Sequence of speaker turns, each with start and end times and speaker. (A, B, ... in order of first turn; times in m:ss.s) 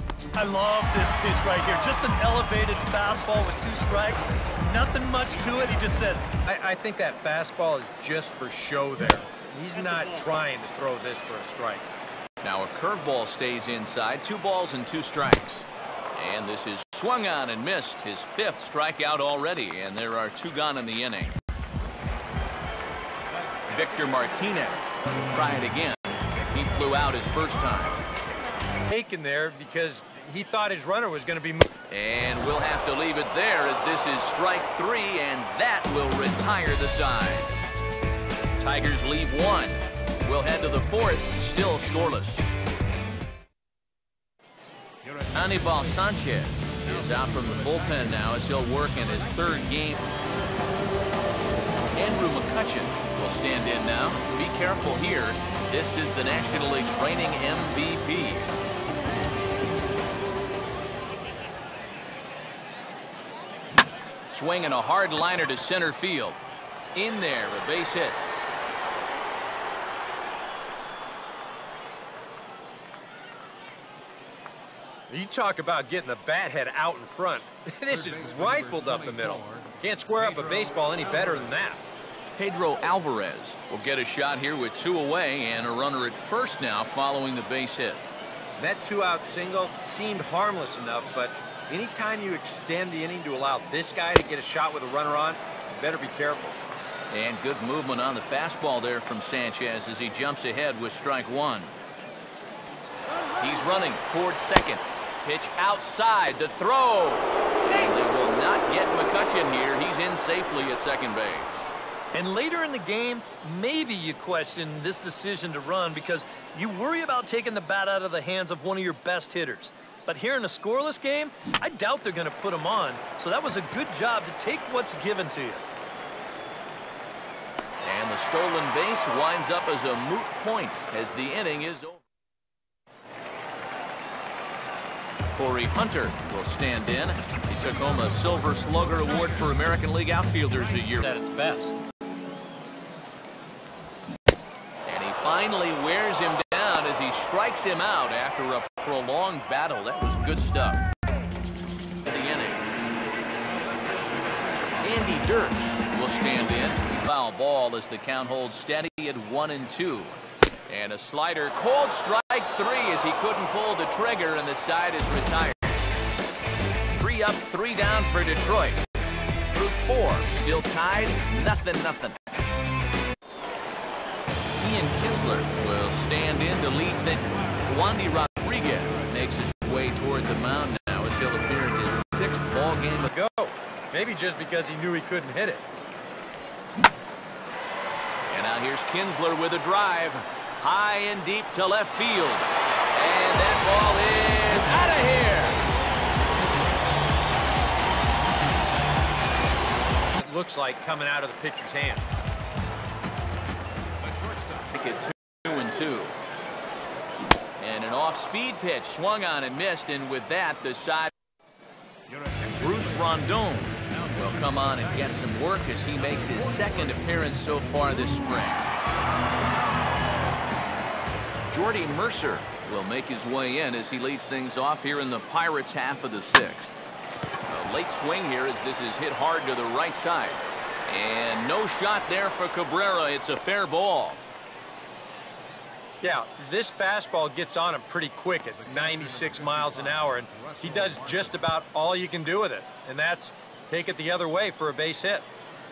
0:00.4-0:06.2 A
0:06.4-0:11.9 B
0:12.4-0:21.4 C
0:23.7-0:28.0 C
0:28.9-0:31.7 B
0:31.9-0:37.5 C
0:38.6-0:42.6 C
0:45.3-0:50.0 C
0:52.0-0:58.5 C
1:04.3-1:06.4 C
1:07.0-1:08.2 C
1:15.1-1:21.8 B
1:22.4-1:28.0 C
1:28.6-1:36.6 B
1:37.1-1:41.7 C
1:43.4-1:51.7 C
1:52.1-2:05.6 A
2:07.8-2:12.0 C
2:15.3-2:21.1 C
2:21.0-2:21.8 B
2:24.9-2:30.8 C
2:32.0-2:32.6 C
2:34.8-2:45.8 C
2:46.9-2:48.8 C
2:49.5-2:52.2 C
2:54.6-3:03.1 C
3:03.0-3:05.6 B
3:08.3-3:15.6 C
3:20.2-3:22.1 B
3:24.7-3:26.2 C
3:27.6-3:31.1 C
3:32.5-3:38.7 C
3:41.5-3:46.7 C
3:47.5-3:54.2 C
3:56.0-4:05.3 B